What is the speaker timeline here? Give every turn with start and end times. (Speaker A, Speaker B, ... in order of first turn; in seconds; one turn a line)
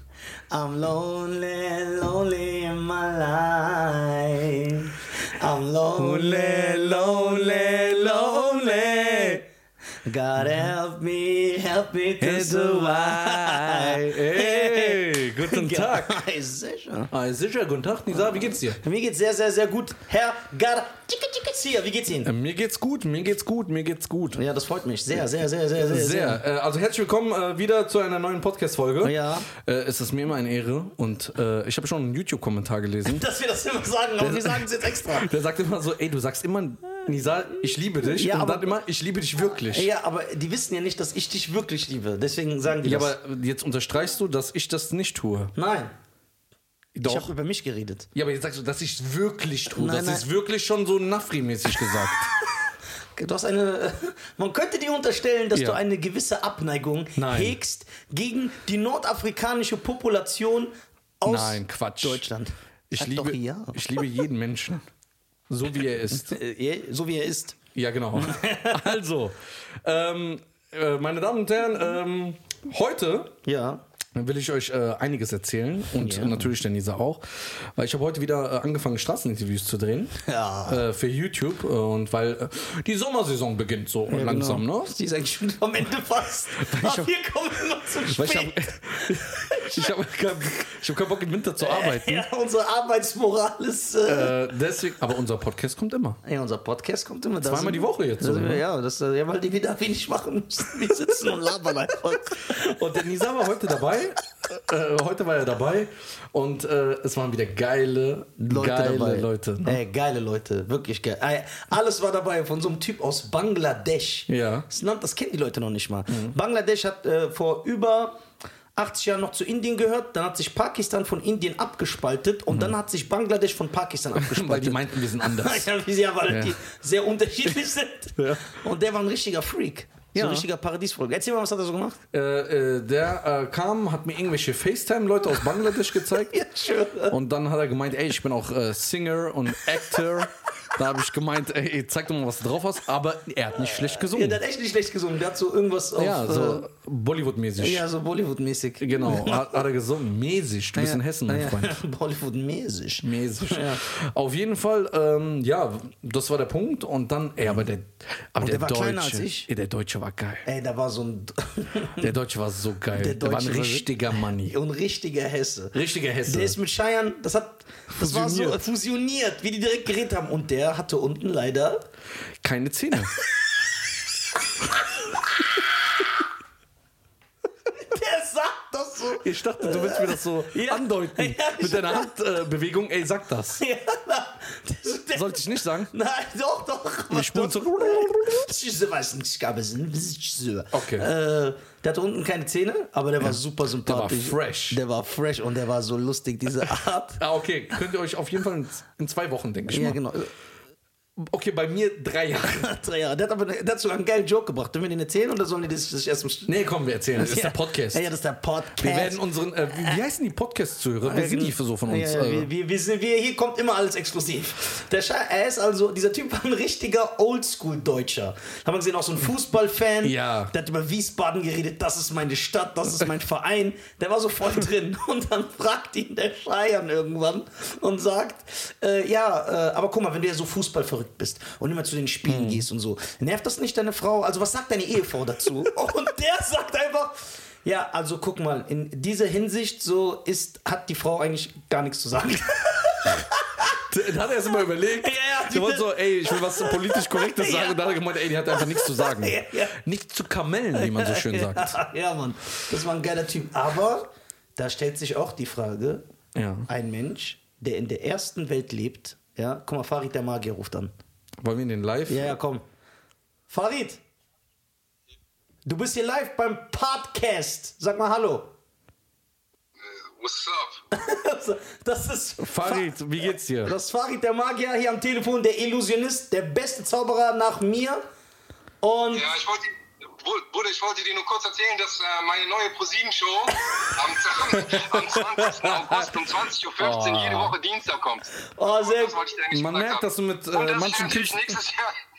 Speaker A: 0.5-9.4
Speaker B: 6.0-9.4
Speaker A: 10.0-17.1
Speaker B: 12.2-16.2
Speaker B: 17.1-18.8
Speaker A: 18.8-22.3
Speaker B: 22.2-24.4
Speaker A: 24.4-26.4
Speaker B: 25.8-33.2
Speaker A: 29.0-29.5
Speaker A: 33.1-35.3
Speaker B: 34.2-39.9
Speaker A: 38.0-38.8
Speaker A: 39.6-43.1
Speaker B: 42.8-45.5
Speaker A: 45.5-45.9
Speaker B: 47.0-47.3
Speaker A: 47.0-48.1
Speaker B: 48.1-52.4
Speaker A: 49.7-50.3
Speaker A: 53.1-64.2
Speaker B: 55.5-55.8
Speaker B: 57.2-57.6
Speaker B: 61.2-62.2
Speaker B: 62.9-64.8
Speaker B: 65.5-66.4
Speaker A: 66.1-67.6
Speaker B: 67.8-73.4
Speaker A: 68.2-69.0
Speaker A: 73.5-73.8
Speaker B: 74.2-84.9
Speaker A: 76.0-76.5
Speaker A: 80.2-80.8
Speaker A: 84.1-90.0
Speaker B: 86.6-87.1
Speaker B: 88.1-92.2
Speaker A: 91.6-94.4
Speaker B: 94.1-96.2
Speaker A: 96.2-103.0
Speaker B: 97.4-98.6
Speaker B: 102.5-109.8
Speaker A: 108.4-118.2
Speaker B: 114.3-114.7
Speaker A: 118.8-132.0
Speaker B: 124.2-125.7
Speaker B: 126.3-126.6
Speaker B: 128.2-128.6
Speaker B: 130.1-130.5
Speaker B: 132.1-136.4
Speaker A: 136.2-137.2
Speaker B: 137.1-144.4
Speaker A: 143.6-146.7
Speaker B: 146.0-147.8
Speaker A: 147.6-149.6
Speaker B: 148.8-151.8
Speaker A: 150.8-153.8
Speaker B: 153.0-160.5
Speaker A: 158.4-159.5
Speaker A: 160.4-162.2
Speaker B: 162.0-164.6
Speaker A: 162.9-171.8
Speaker B: 165.7-166.6
Speaker B: 167.9-168.7
Speaker B: 172.4-173.2
Speaker A: 177.7-182.1
Speaker B: 179.2-183.6
Speaker A: 183.6-197.2
Speaker B: 185.1-185.9
Speaker B: 187.1-188.5
Speaker B: 190.7-191.1
Speaker B: 193.2-194.8
Speaker B: 197.2-200.0
Speaker A: 199.7-200.3
Speaker B: 201.2-202.7
Speaker A: 202.4-206.5
Speaker B: 206.5-208.1
Speaker A: 207.2-210.0
Speaker B: 208.8-212.5
Speaker A: 211.0-243.8
Speaker B: 220.0-220.5
Speaker B: 232.3-232.6
Speaker B: 243.8-251.8
Speaker A: 244.9-247.9
Speaker A: 248.5-249.8
Speaker A: 250.7-256.0
Speaker B: 256.4-256.7
Speaker A: 256.7-260.9
Speaker B: 261.4-262.4
Speaker A: 262.1-262.6
Speaker A: 263.5-264.0
Speaker A: 265.6-268.5
Speaker C: 269.8-270.8
Speaker A: 270.9-273.0
Speaker B: 272.4-273.8
Speaker A: 273.6-278.0
Speaker A: 278.8-279.3
Speaker C: 279.1-291.9
Speaker B: 284.5-286.1
Speaker B: 286.8-287.6
Speaker A: 288.6-289.2
Speaker B: 289.5-291.6